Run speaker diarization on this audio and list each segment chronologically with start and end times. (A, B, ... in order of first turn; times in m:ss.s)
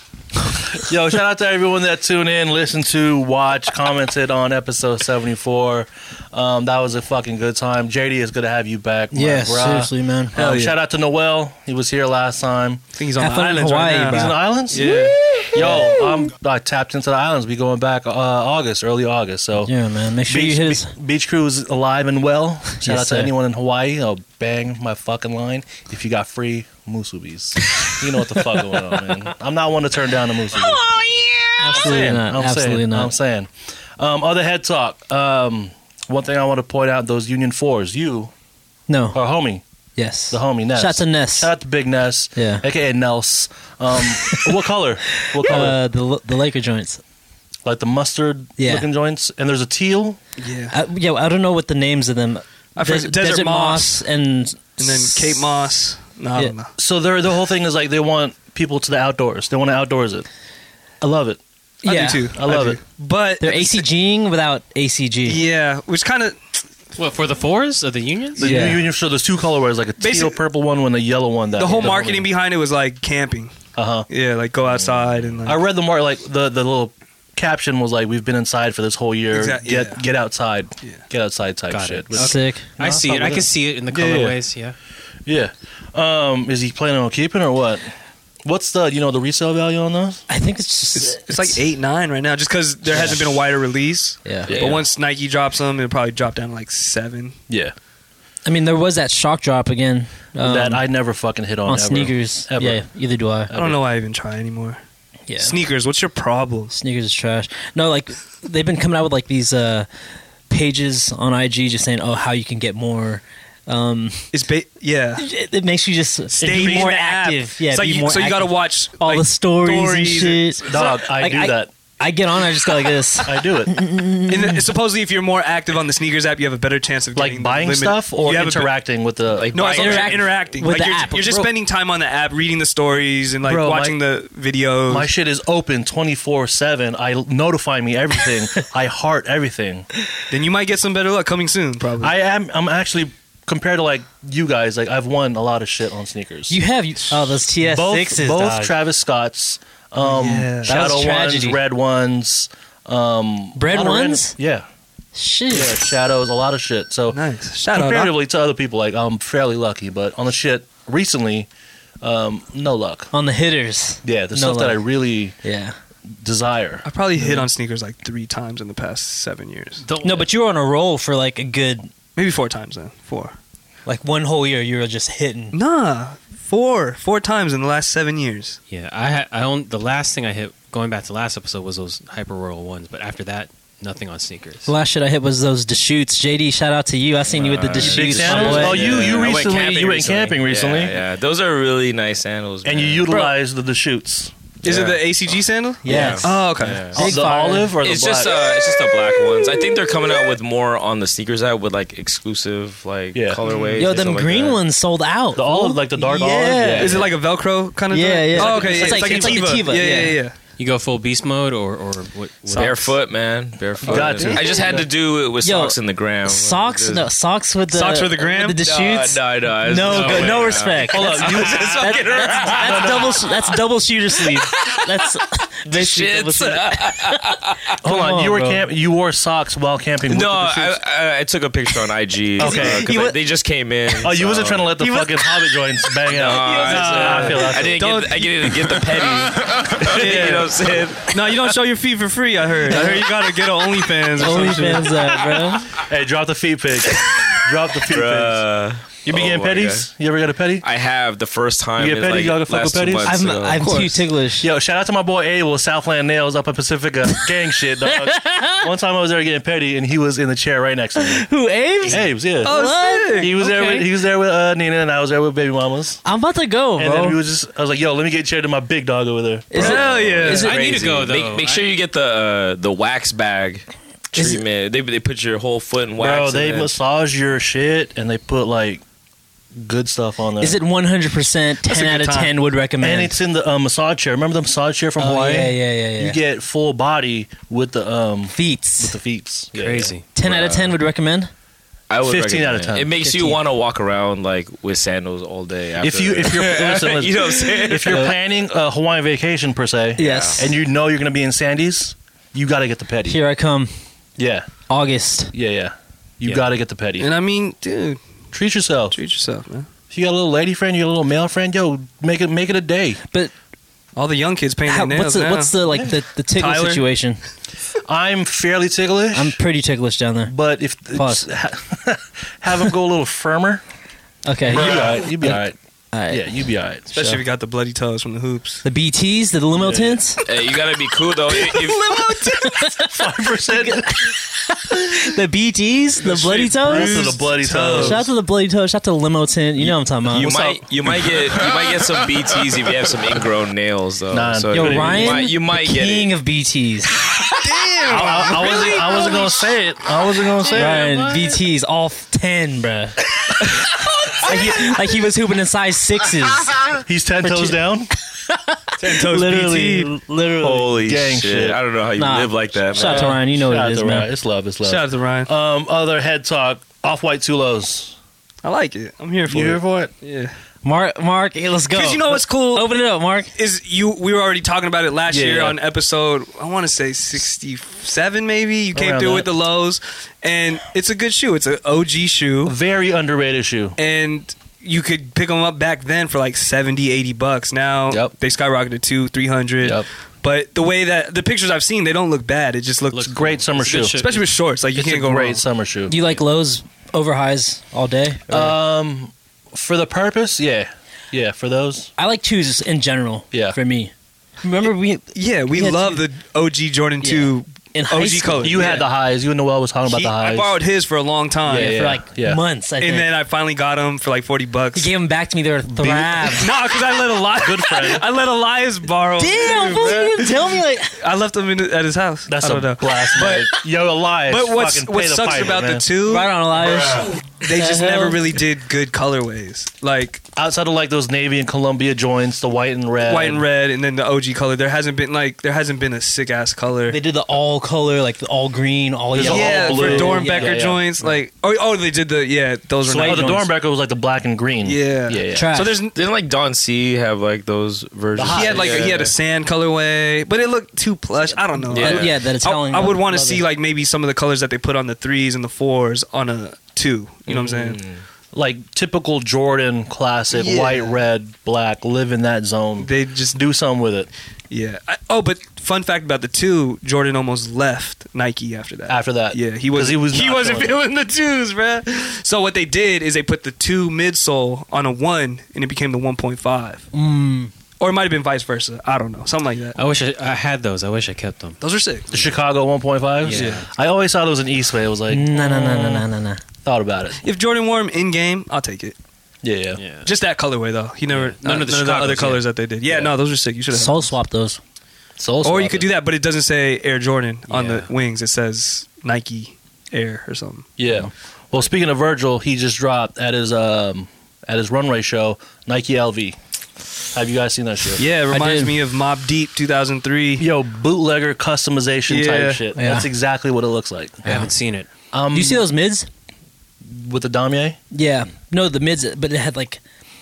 0:00.7-0:12.8 A
0:09.1-0:10.3 B
0:10.3-0:10.7 C
0:12.9-0:15.2 C
0:13.2-0:14.9 B
0:14.1-0:15.0 A
0:15.5-0:19.7 A
0:15.5-0:16.1 B
0:19.6-0:20.9 B
0:20.3-0:30.8 A
0:22.8-0:23.3 B
0:31.0-0:33.1 B
0:31.7-0:38.3 A
0:31.7-0:32.2 C
0:38.9-0:39.2 B
0:39.1-0:39.6 A
0:40.0-0:41.5 B
0:40.3-0:45.8 A
0:42.4-0:42.6 B
0:44.3-0:44.6 B
0:45.4-0:47.0 B
0:47.6-0:50.2 A
0:48.6-0:48.9 B
0:50.4-0:50.7 C
0:50.7-0:55.4 B
0:52.8-0:54.0 C
0:54.8-0:56.7 C
0:56.8-1:00.3 A
1:01.0-1:01.4 A
1:01.8-1:02.3 B
1:01.8-1:03.9 C
1:02.3-1:02.8 A
1:03.4-1:05.4 B
1:05.2-1:06.6 C
1:07.0-1:08.8 D
1:08.4-1:12.3 A
1:08.4-1:08.9 B
1:10.0-1:10.4 C
1:11.5-1:13.5 C
1:13.8-1:14.1 A
1:14.1-1:15.6 C
1:15.4-1:24.4 A
1:19.3-1:20.0 C
1:21.7-1:24.8 D
1:22.1-1:22.7 B
1:25.2-1:27.9 A
1:28.4-1:30.2 A
1:30.3-1:31.6 B
1:30.9-1:37.4 C
1:32.9-1:33.2 A
1:34.2-1:34.6 B
1:34.5-1:34.8 A
1:37.5-1:37.7 A
1:38.4-1:40.8 B
1:40.4-1:42.8 A
1:41.6-1:43.5 B
1:43.5-1:43.8 A
1:43.5-1:44.8 C
1:45.3-1:45.6 B
1:45.4-1:46.7 C
1:46.7-1:49.9 B
1:50.5-1:54.3 B
1:54.3-1:55.2 C
1:55.2-2:04.6 B
1:56.3-2:01.0 C
1:56.4-1:56.9 A
2:00.7-2:01.7 A
2:03.2-2:03.7 A
2:04.3-2:08.7 C
2:07.2-2:10.1 A
2:09.3-2:10.3 E
2:09.5-2:15.1 C
2:09.7-2:11.4 B
2:13.4-2:14.0 A
2:14.9-2:19.9 A
2:20.3-2:22.1 C
2:22.0-2:26.6 A
2:26.5-2:28.7 B
2:27.6-2:34.6 A
2:30.0-2:30.9 C
2:30.6-2:31.6 B
2:33.6-2:34.3 B
2:35.1-2:35.8 B
2:35.5-2:41.5 A
2:37.1-2:38.1 C
2:42.0-2:43.1 A
2:43.1-2:44.8 B
2:44.0-2:45.4 A
2:45.4-2:45.7 B
2:46.1-2:47.4 A
2:46.8-2:49.8 C
2:49.9-2:50.2 D
2:50.0-2:51.9 B
2:52.2-2:53.4 C
2:53.8-2:55.6 B
2:55.5-2:58.6 C
2:58.7-3:04.7 D
3:04.6-3:09.5 B
3:07.3-3:13.1 E
3:07.8-3:11.0 A
3:08.4-3:09.5 D
3:12.6-3:14.3 A
3:14.6-3:16.9 C
3:14.6-3:15.1 E
3:15.8-3:17.7 B
3:15.8-3:17.0 E
3:16.6-3:17.0 D
3:16.9-3:18.3 A
3:17.8-3:24.6 E
3:23.1-3:23.4 A
3:23.5-3:23.8 C
3:23.8-3:27.0 B
3:25.3-3:27.1 A
3:26.7-3:30.3 C
3:27.9-3:30.2 B
3:28.3-3:29.6 A
3:30.6-3:33.0 D
3:32.5-3:37.0 E
3:33.6-3:34.3 D
3:33.8-3:34.8 A
3:34.2-3:34.4 C
3:34.3-3:34.6 B
3:35.4-3:48.6 B
3:37.7-3:38.6 C
3:38.6-3:43.3 E
3:39.9-3:40.6 D
3:40.9-3:43.2 A
3:44.3-3:45.1 E
3:45.6-3:47.7 E
3:47.8-3:50.8 A
3:50.1-3:54.7 E
3:52.4-3:52.9 A
3:52.4-3:53.2 B
3:54.0-3:57.9 A
3:54.8-3:55.1 B
3:56.1-4:01.5 E
3:56.4-3:58.8 C
3:59.8-4:00.5 A
3:59.9-4:05.0 C
4:02.7-4:03.1 B
4:04.2-4:05.8 B
4:05.7-4:08.4 A
4:07.9-4:09.9 E
4:09.0-4:10.6 A
4:10.6-4:13.8 E
4:11.8-4:13.2 A
4:13.0-4:14.5 B
4:13.6-4:13.9 C
4:14.4-4:21.3 A
4:17.9-4:18.7 B
4:21.0-4:23.8 B
4:21.9-4:22.6 A
4:22.4-4:23.3 C
4:23.1-4:26.0 A
4:26.0-4:27.2 B
4:26.8-4:29.7 A
4:29.5-4:30.8 B
4:29.6-4:30.5 C
4:29.6-4:36.7 E
4:30.3-4:31.6 D
4:34.1-4:34.4 B
4:36.0-4:38.8 A
4:39.5-4:40.6 A
4:40.4-4:43.2 B
4:41.6-4:42.3 C
4:42.8-4:49.9 A
4:45.0-4:46.2 B
4:48.3-4:49.0 B
4:49.5-4:50.1 D
4:50.1-4:51.3 B
4:50.2-4:50.7 E
4:51.9-4:58.1 E
4:52.0-4:52.9 A
4:53.0-4:53.4 B
4:55.8-5:03.2 A
4:57.8-4:58.1 B
5:00.0-5:00.5 E
5:00.0-5:00.5 B
5:03.1-5:03.7 B
5:04.2-5:04.5 A
5:04.7-5:05.3 B
5:05.3-5:07.1 A
5:07.0-5:08.0 C
5:08.3-5:09.0 A
5:08.9-5:09.7 C
5:09.9-5:13.0 A
5:13.9-5:15.6 C
5:14.7-5:17.2 B
5:16.4-5:16.8 C
5:17.8-5:19.4 A
5:19.1-5:20.3 B
5:20.3-5:23.6 A
5:20.9-5:21.2 B
5:24.2-5:25.4 B
5:24.4-5:25.6 A
5:25.9-5:27.2 B
5:26.1-5:26.9 A
5:26.9-5:28.6 C
5:28.6-5:30.2 B
5:29.6-5:30.0 A
5:30.2-5:32.0 E
5:31.4-5:34.1 A
5:32.1-5:32.9 B
5:33.5-5:40.3 B
5:36.0-5:38.0 C
5:36.6-5:38.1 A
5:39.6-5:41.6 A
5:40.1-5:46.1 E
5:44.1-5:45.2 A
5:44.5-5:47.0 B
5:47.4-5:49.4 C
5:47.8-5:50.9 A
5:50.5-5:57.6 B
5:50.8-5:51.1 D
5:56.8-5:57.9 A
5:58.3-6:00.8 B
5:58.8-5:59.9 C
6:00.4-6:03.2 E
6:00.8-6:01.6 A
6:02.0-6:04.1 B
6:02.8-6:03.2 C
6:02.9-6:08.0 A
6:04.6-6:05.3 C
6:08.4-6:10.3 C
6:09.3-6:09.9 A
6:10.6-6:13.3 B
6:11.7-6:12.7 C
6:13.4-6:22.5 C
6:15.1-6:15.6 A
6:18.7-6:19.3 A
6:22.4-6:23.8 A
6:23.8-6:35.4 C
6:33.0-6:34.0 A
6:33.5-6:34.2 D
6:34.7-6:35.9 A
6:35.9-6:38.5 B
6:38.3-6:41.9 A
6:42.0-6:46.0 B
6:43.3-6:43.6 A
6:45.1-6:48.8 C
6:47.0-6:48.8 B
6:48.4-6:50.6 A
6:49.8-6:51.8 C
6:51.4-6:52.4 A
6:51.5-6:53.1 B
6:52.8-6:54.9 C
6:54.7-6:56.5 B
6:55.7-6:56.4 A
6:56.3-7:00.4 C
6:57.4-6:58.0 A
6:59.2-7:01.0 B
7:01.0-7:03.6 C
7:02.3-7:05.9 A
7:04.3-7:06.3 C
7:06.0-7:08.2 B
7:07.3-7:10.2 C
7:10.4-7:13.4 A
7:13.0-7:17.0 C
7:16.9-7:20.6 B
7:19.1-7:20.9 A
7:19.2-7:23.4 C
7:22.8-7:23.5 B
7:23.0-7:25.5 A
7:24.6-7:26.0 C
7:25.3-7:25.8 B
7:25.9-7:29.1 E
7:28.1-7:29.1 A
7:28.3-7:37.8 C
7:31.7-7:32.1 E
7:31.7-7:33.4 B
7:37.3-7:38.0 E
7:38.3-7:44.1 A
7:40.3-7:41.0 C
7:42.8-7:43.4 C
7:44.5-7:56.9 C
7:48.9-7:50.8 A
7:56.9-7:57.5 B
7:57.8-7:59.8 C
7:59.8-8:01.6 D
8:01.6-8:02.1 C
8:02.1-8:06.0 A
8:03.2-8:03.7 D
8:03.3-8:03.6 C
8:05.1-8:06.4 B
8:06.6-8:07.2 A
8:07.2-8:09.0 C
8:09.4-8:09.8 A
8:09.8-8:10.1 D
8:10.0-8:14.1 C
8:11.1-8:12.4 D
8:13.7-8:14.6 B
8:15.2-8:15.9 A
8:15.4-8:20.7 C
8:17.5-8:17.9 D
8:20.8-8:26.4 A
8:27.1-8:28.1 A
8:28.0-8:30.4 C
8:28.3-8:28.8 B
8:30.4-8:34.5 A
8:32.1-8:32.6 C
8:32.7-8:33.1 B
8:34.2-8:34.9 D
8:35.1-8:35.6 A
8:35.3-8:36.1 B
8:36.8-8:37.8 A
8:37.9-8:39.8 B